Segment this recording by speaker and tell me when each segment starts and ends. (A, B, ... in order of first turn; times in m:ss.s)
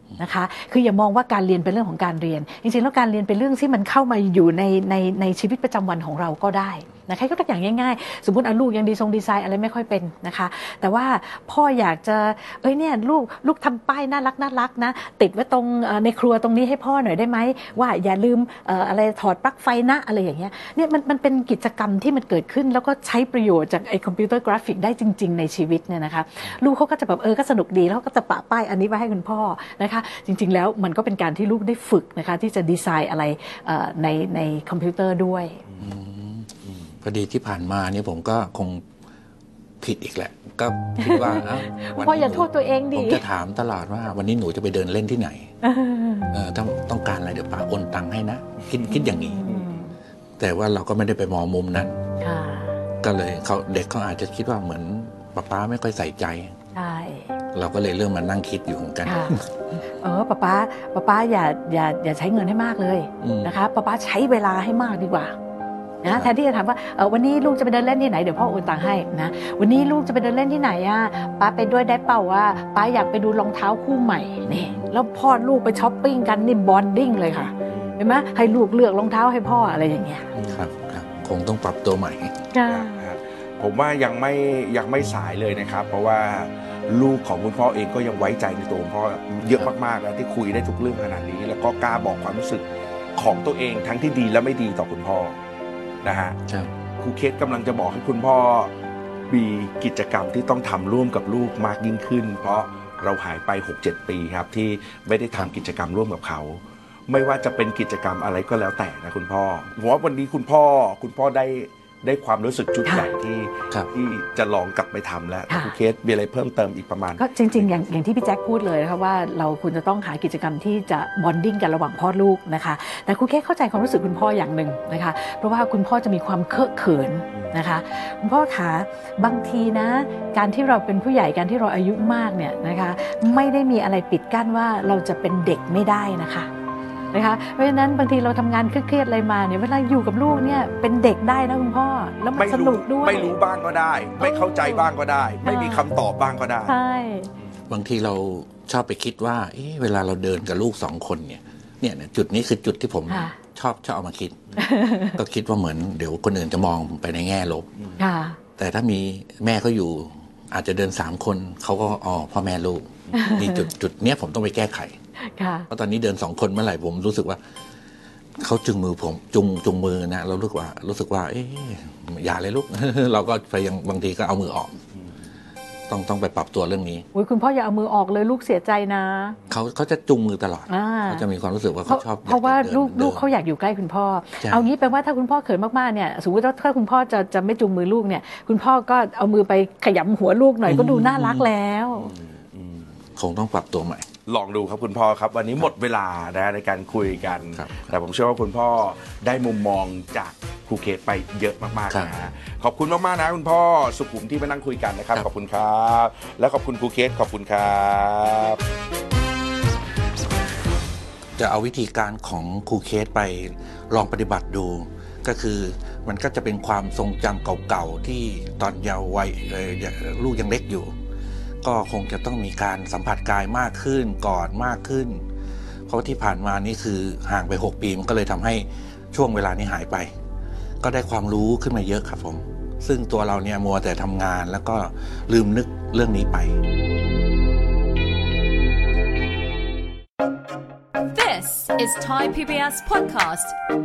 0:00.2-0:35.6 A
0:35.7-0:35.9 B
0:35.8-0:36.5 C
0:37.0-0:38.8 C
0:39.8-0:45.5 C
0:41.0-0:43.2 A
0:45.6-0:46.3 A
0:46.3-0:49.5 C
0:48.6-0:48.9 B
0:48.9-0:50.0 A
0:49.4-0:49.8 B
0:50.4-0:52.0 C
0:52.2-0:52.8 A
0:53.0-0:56.6 C
0:56.7-0:57.4 A
0:57.5-0:59.5 C
0:59.0-1:05.4 A
1:03.2-1:03.5 C
1:06.0-1:20.3 A
1:06.1-1:06.3 C
1:14.5-1:14.9 C
1:17.7-1:18.0 B
1:20.4-1:21.3 B
1:20.5-1:22.5 C
1:22.5-1:23.0 A
1:22.7-1:32.6 B
1:33.2-1:35.4 B
1:36.0-1:36.4 B
1:36.5-1:36.7 C
1:37.0-1:38.7 B
1:39.3-1:57.8 B
1:52.9-1:53.1 A
1:55.5-1:55.7 A
1:57.2-2:16.5 A
2:17.1-2:23.3 A
2:22.4-2:26.8 B
2:24.2-2:24.9 A
2:25.4-2:25.9 A
2:26.7-2:27.3 A
2:27.7-2:34.5 C
2:33.1-2:33.4 A
2:34.6-2:35.2 A
2:35.1-2:37.7 C
2:38.0-2:38.4 A
2:38.6-2:45.0 C
2:43.1-2:43.7 A
2:45.3-2:45.7 A
2:45.7-2:47.4 C
2:48.4-2:54.8 C
2:55.9-2:57.1 C
2:57.1-2:59.4 A
2:59.5-3:03.2 C
3:00.7-3:01.2 A
3:01.9-3:12.1 A
3:04.4-3:04.7 C
3:10.7-3:11.5 C
3:12.0-3:12.9 B
3:13.2-3:14.1 C
3:14.3-3:28.6 B
3:17.6-3:18.0 C
3:31.4-3:40.9 C
3:41.6-3:45.2 C
3:45.9-3:50.1 C
3:50.8-3:56.6 C
4:01.1-4:03.6 D